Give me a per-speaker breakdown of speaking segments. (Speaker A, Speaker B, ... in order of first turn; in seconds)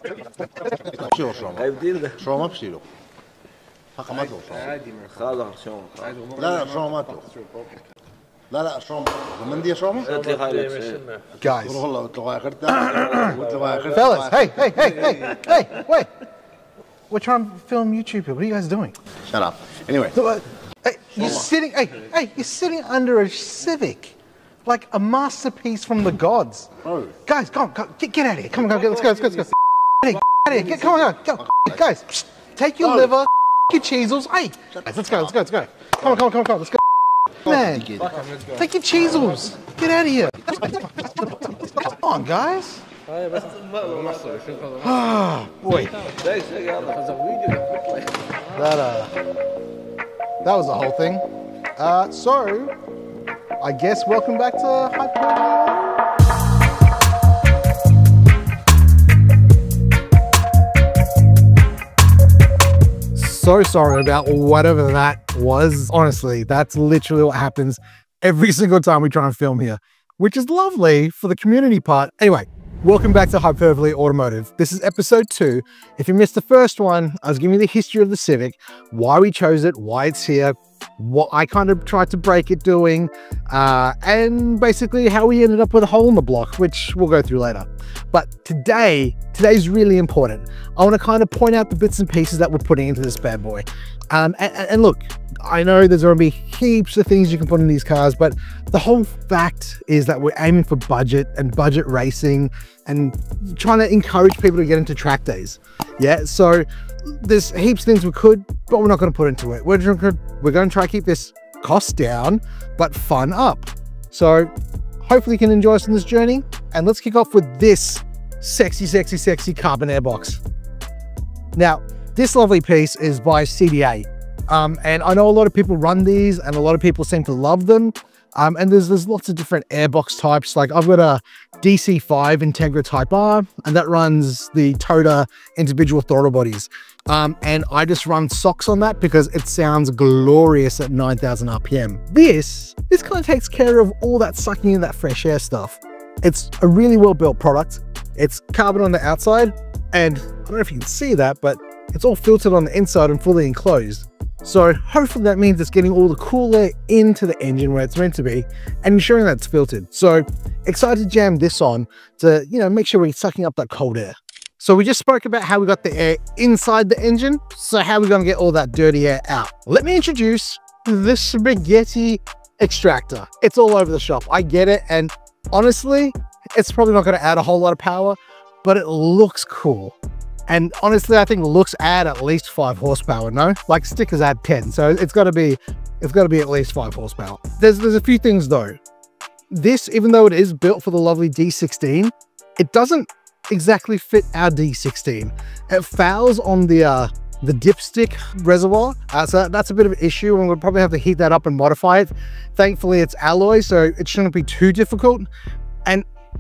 Speaker A: 0.8-2.9, 4.0-4.7, 6.2-7.7, 8.5-10.2, 11.8-14.4, 19.3-20.1
Speaker B: 1.5-2.3, 4.3-6.4, 10.1-11.2, 43.2-44.6, 46.1-48.1
Speaker C: 11.4-11.8, 12.7-13.4, 13.9-16.1, 17.1-19.0, 20.0-36.8, 37.3-42.9, 44.7-46.1, 48.4-49.2, 50.4-51.2, 51.8-52.8, 53.6-56.0, 63.1-120.4, 121.6-180.0, 180.5-188.8, 189.5-205.3